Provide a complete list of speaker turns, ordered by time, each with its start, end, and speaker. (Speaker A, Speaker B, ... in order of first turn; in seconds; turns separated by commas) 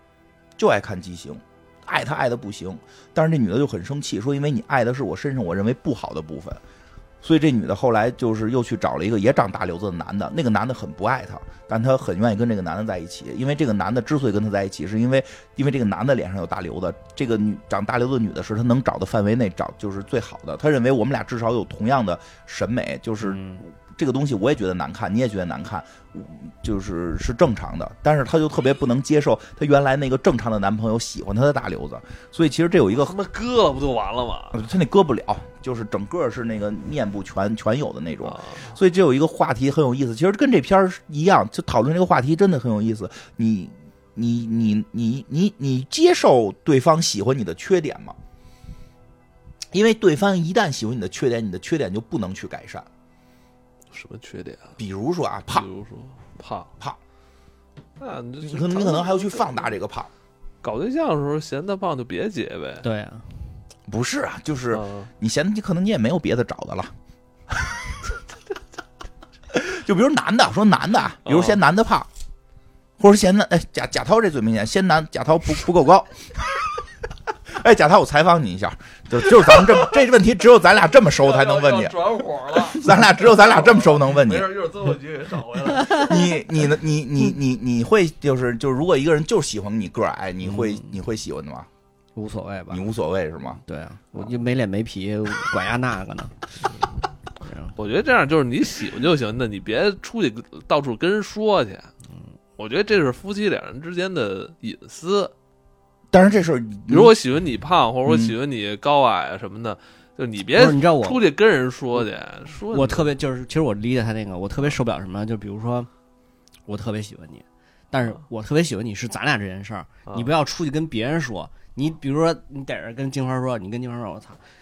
Speaker A: 0.6-6.6, Speaker A: 7.2-33.2, Speaker B: 23.2-23.6, Speaker C: 33.0-34.6, Speaker A: 34.5-48.2, Speaker C: 38.2-38.8, Speaker A: 49.7-52.9, Speaker C: 53.9-54.8, Speaker A: 54.8-55.7, Speaker C: 55.5-56.7, Speaker C: 58.0-59.7, Speaker A: 58.4-60.1, Speaker C: 60.6-62.8, Speaker B: 62.8-63.4, Speaker A: 63.9-66.9, Speaker C: 64.7-65.1, Speaker A: 67.5-67.9, Speaker A: 69.5-72.1, Speaker C: 71.3-71.6, Speaker A: 73.0-76.9, Speaker A: 77.5-84.5, Speaker C: 81.1-86.3, Speaker A: 85.8-91.7, Speaker B: 90.4-90.9, Speaker B: 92.2-92.9, Speaker A: 92.7-93.6, Speaker B: 93.6-96.4, Speaker B: 97.4-97.8, Speaker C: 97.8-101.9, Speaker C: 102.6-105.3, Speaker A: 106.1-107.1, Speaker C: 106.9-113.1, Speaker A: 108.0-108.4, Speaker B: 110.5-111.2, Speaker B: 112.7-115.9, Speaker B: 116.7-124.4